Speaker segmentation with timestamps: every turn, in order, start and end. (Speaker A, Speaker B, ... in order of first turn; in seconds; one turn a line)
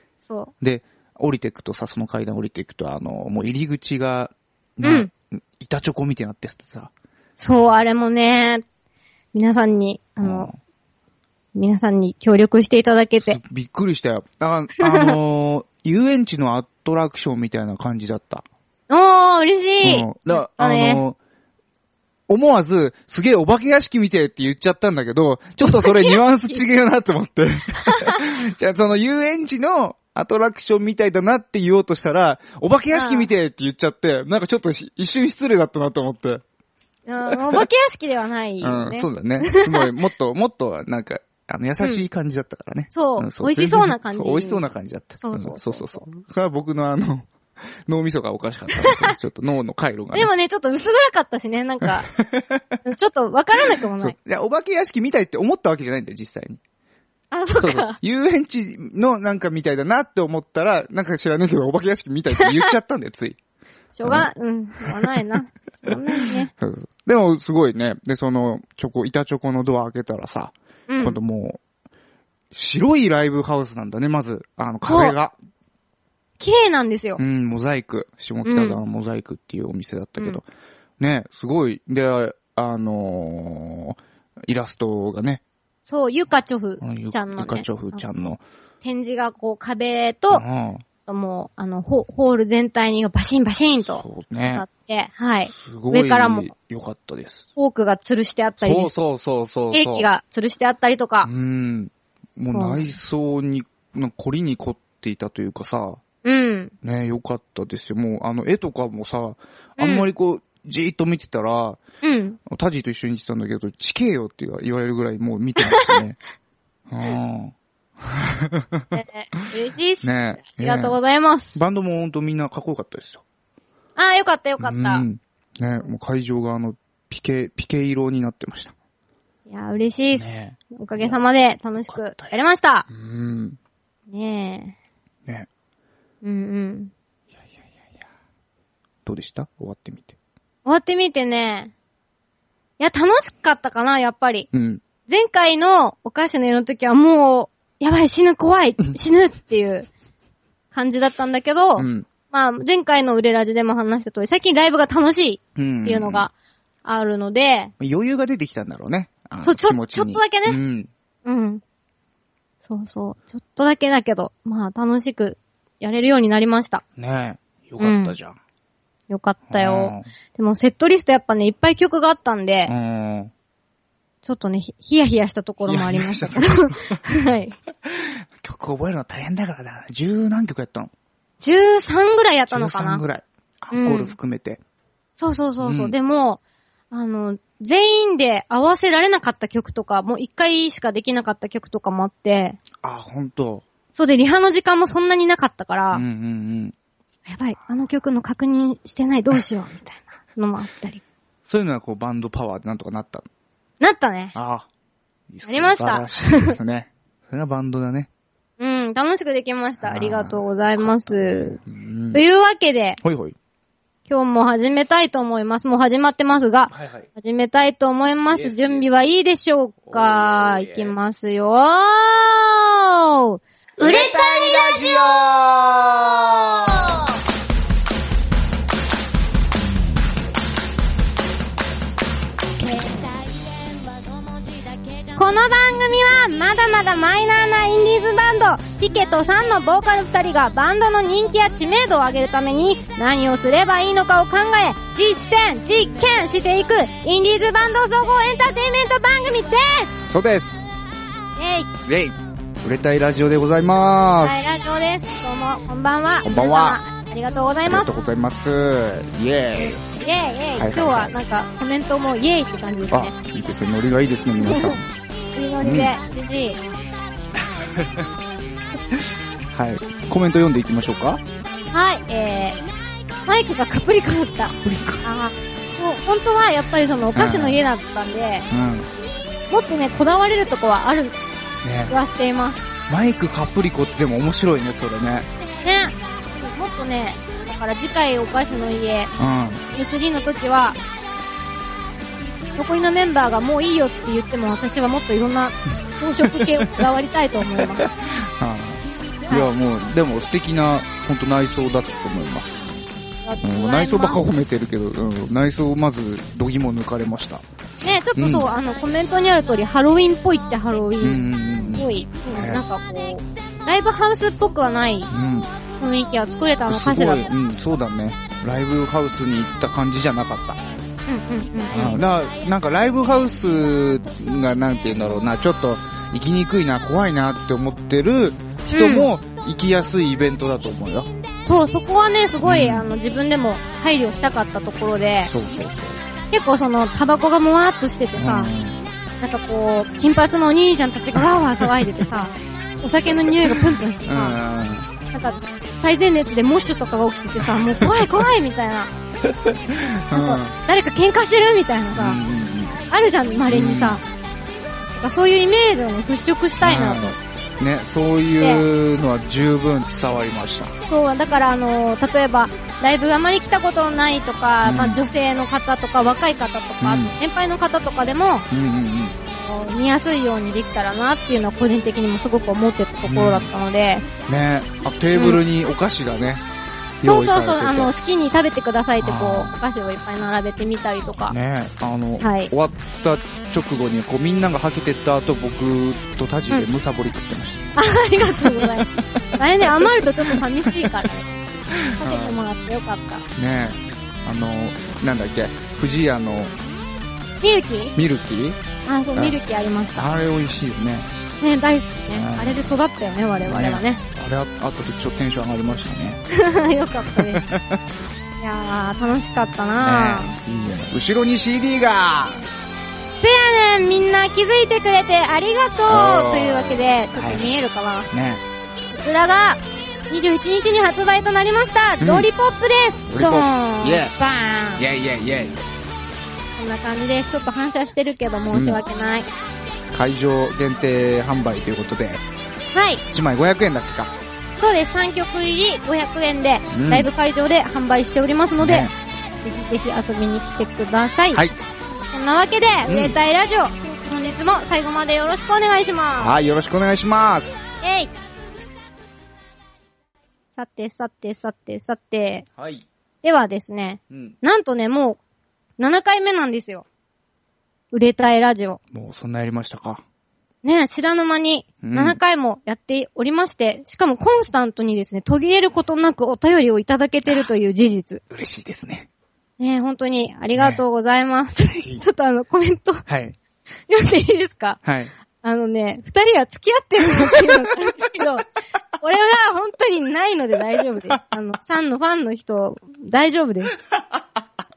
Speaker A: 0.3-0.5
Speaker B: 0.6-6.9
Speaker A: 4.8-5.1
Speaker A: 7.4-8.6
Speaker A: 9.3-10.5
Speaker B: 10.2-10.6
Speaker A: 11.5-13.4
Speaker B: 13.2-18.4
Speaker A: 14.8-15.2
Speaker A: 18.9-21.0
Speaker B: 19.8-21.2
Speaker B: 22.3-36.4
Speaker A: 25.6-26.6
Speaker A: 27.9-28.2
Speaker A: 32.9-33.3
Speaker A: 37.0-39.9
Speaker B: 37.3-37.6
Speaker B: 38.6-47.3
Speaker A: 42.9-44.6
Speaker A: 45.2-46.0
Speaker B: 47.9-50.3
Speaker A: 48.8-49.1
Speaker A: 50.1-52.1
Speaker B: 52.1-52.8
Speaker A: 52.8-54.1
Speaker B: 54.0-56.6
Speaker A: 57.3-58.0
Speaker B: 57.6-63.4
Speaker A: 63.9-66.5
Speaker B: 64.0-64.3
Speaker B: 66.5-71.6
Speaker A: 70.9-71.2
Speaker B: 72.5-75.3
Speaker A: 74.8-75.2
Speaker A: 76.4-77.2
Speaker B: 77.2-80.5
Speaker A: 78.4-78.8
Speaker B: 81.0-85.4
Speaker A: 85.9-88.0
Speaker B: 86.8-88.4
Speaker A: 88.8-90.4
Speaker B: 90.3-90.8
Speaker A: 91.0-96.5
Speaker B: 94.0-94.6
Speaker B: 95.5-97.5
Speaker A: 97.5-98.9
Speaker B: 98.6-100.1
Speaker A: 99.7-101.3
Speaker B: 101.2-106.0
Speaker A: 102.5-102.9
Speaker A: 106.2-106.7
Speaker B: 106.8-111.8
Speaker A: 109.8-110.0
Speaker A: 112.0-112.4
Speaker B: 112.5-116.2
Speaker A: 115.6-116.0
Speaker B: 116.9-119.5
Speaker A: 118.9-121.6
Speaker B: 120.0-121.0
Speaker B: 121.5-123.2
Speaker A: 124.0-125.0
Speaker B: 124.6-128.7
Speaker A: 129.5-132.9
Speaker B: 130.1-131.2
Speaker B: 131.9-132.3
Speaker B: 132.9-133.6
Speaker A: 134.1-134.8
Speaker A: 136.2-136.9
Speaker B: 139.0-140.1
Speaker A: 140.6-141.7
Speaker A: 142.8-144.5
Speaker B: 144.5-144.8
Speaker A: 145.1-149.9
Speaker A: 150.7-156.3
Speaker B: 151.8-152.1
Speaker B: 155.6-156.3
Speaker A: 156.8-157.7
Speaker B: 157.8-160.9
Speaker A: 159.4-160.6
Speaker A: 161.2-161.6
Speaker A: 162.6-166.8
Speaker B: 167.0-168.3
Speaker A: 167.8-168.2
Speaker A: 169.1-172.7
Speaker B: 169.5-170.1
Speaker B: 172.7-173.3
Speaker A: 174.2-177.5
Speaker B: 175.6-177.0
Speaker B: 177.8-180.9
Speaker A: 181.4-183.0
Speaker B: 182.5-184.6
Speaker A: 183.7-184.2
Speaker A: 185.2-186.4
Speaker B: 185.6-185.9
Speaker A: 186.9-192.6
Speaker B: 192.8-193.7
Speaker A: 193.9-196.0
Speaker B: 195.9-196.7
Speaker A: 197.3-201.0
Speaker B: 201.4-203.3
Speaker A: 203.8-204.3
Speaker B: 204.3-204.7
Speaker B: 205.3-208.1
Speaker A: 205.4-206.6
Speaker A: 208.6-211.6
Speaker B: 209.8-212.2
Speaker A: 212.1-213.0
Speaker B: 213.0-213.3
Speaker A: 214.1-225.0
Speaker B: 216.7-217.1
Speaker B: 218.3-218.9
Speaker B: 219.8-220.9
Speaker C: 223.8-226.7
Speaker B: 223.8-225.2
Speaker A: 232.6-233.1
Speaker A: 235.1-249.9
Speaker B: 250.0-250.6
Speaker A: 251.4-251.7
Speaker B: 251.8-254.4
Speaker A: 254.2-257.9
Speaker B: 256.2-256.8
Speaker B: 257.6-259.8
Speaker A: 259.5-263.1
Speaker B: 260.6-261.1
Speaker B: 262.9-264.8
Speaker A: 264.4-264.8
Speaker A: 265.3-266.6
Speaker B: 265.6-265.9
Speaker B: 267.4-268.1
Speaker B: 269.5-271.2
Speaker A: 271.7-272.6
Speaker A: 273.2-278.5
Speaker B: 274.5-275.0
Speaker B: 277.1-277.6
Speaker B: 278.5-278.9
Speaker A: 279.5-281.2
Speaker B: 281.6-281.9
Speaker A: 281.9-282.6
Speaker B: 282.9-285.3
Speaker A: 285.6-289.1
Speaker B: 289.2-289.6
Speaker A: 289.7-290.8
Speaker A: 292.6-297.9
Speaker B: 296.2-296.9
Speaker B: 297.8-302.7
Speaker A: 303.2-304.2
Speaker B: 303.4-307.4
Speaker A: 307.8-315.1
Speaker B: 308.1-308.5
Speaker B: 311.0-312.6
Speaker B: 315.1-315.5
Speaker A: 315.8-317.3
Speaker B: 316.7-320.6
Speaker A: 321.1-322.0
Speaker B: 321.7-331.1
Speaker A: 328.7-329.1
Speaker A: 331.4-335.3
Speaker B: 332.4-332.9
Speaker B: 335.3-336.0
Speaker A: 336.3-338.5
Speaker B: 338.2-338.8
Speaker A: 339.2-344.4
Speaker B: 341.6-341.9
Speaker B: 343.4-344.9
Speaker A: 345.1-348.9
Speaker B: 347.8-348.1
Speaker B: 349.3-350.6
Speaker A: 350.1-352.2
Speaker B: 351.9-352.8
Speaker A: 352.9-354.0
Speaker B: 353.5-354.0
Speaker A: 354.8-357.1
Speaker B: 356.6-360.8
Speaker A: 358.4-358.6
Speaker A: 360.9-368.5
Speaker B: 364.6-365.0
Speaker B: 366.8-367.2
Speaker B: 368.5-369.1
Speaker A: 369.3-374.1
Speaker B: 373.1-373.5
Speaker B: 374.3-376.4
Speaker A: 375.1-375.4
Speaker B: 377.0-377.9
Speaker A: 377.0-381.3
Speaker B: 379.0-379.5
Speaker B: 381.3-387.7
Speaker A: 382.2-382.5
Speaker A: 387.7-391.4
Speaker B: 389.1-390.9
Speaker B: 391.7-392.4
Speaker A: 392.0-393.2
Speaker B: 393.3-396.6
Speaker A: 397.4-397.9
Speaker B: 397.9-398.6
Speaker A: 398.9-400.1
Speaker B: 399.9-401.1
Speaker A: 401.4-404.0
Speaker B: 402.1-402.7
Speaker B: 403.4-406.2
Speaker A: 406.3-407.4
Speaker B: 407.1-407.8
Speaker A: 408.4-410.4
Speaker B: 409.8-412.4
Speaker A: 413.1-418.1
Speaker B: 415.9-417.5
Speaker B: 418.1-418.4
Speaker A: 418.9-424.8
Speaker B: 422.0-422.3
Speaker B: 423.1-424.1
Speaker B: 424.8-425.7
Speaker A: 426.6-429.3
Speaker B: 428.5-428.8
Speaker B: 429.9-432.2
Speaker A: 432.7-433.0
Speaker B: 433.1-434.1
Speaker A: 434.6-438.9
Speaker B: 436.7-437.1
Speaker B: 438.6-438.9
Speaker A: 439.4-441.4
Speaker B: 441.3-441.6
Speaker A: 442.1-446.3
Speaker B: 442.9-443.2
Speaker B: 446.2-447.6
Speaker A: 447.8-448.1
Speaker A: 450.6-452.4
Speaker B: 452.6-452.8
Speaker A: 453.2-455.2
Speaker B: 454.1-454.4
Speaker A: 455.8-456.9
Speaker A: 457.9-458.8
Speaker B: 458.9-460.0
Speaker A: 460.6-468.2
Speaker B: 461.8-462.2
Speaker B: 468.3-469.1
Speaker A: 469.6-473.0
Speaker B: 470.6-470.8
Speaker B: 471.6-472.0
Speaker B: 473.1-473.4
Speaker A: 473.9-474.8
Speaker B: 474.8-475.1
Speaker A: 475.4-478.4
Speaker A: 479.0-483.7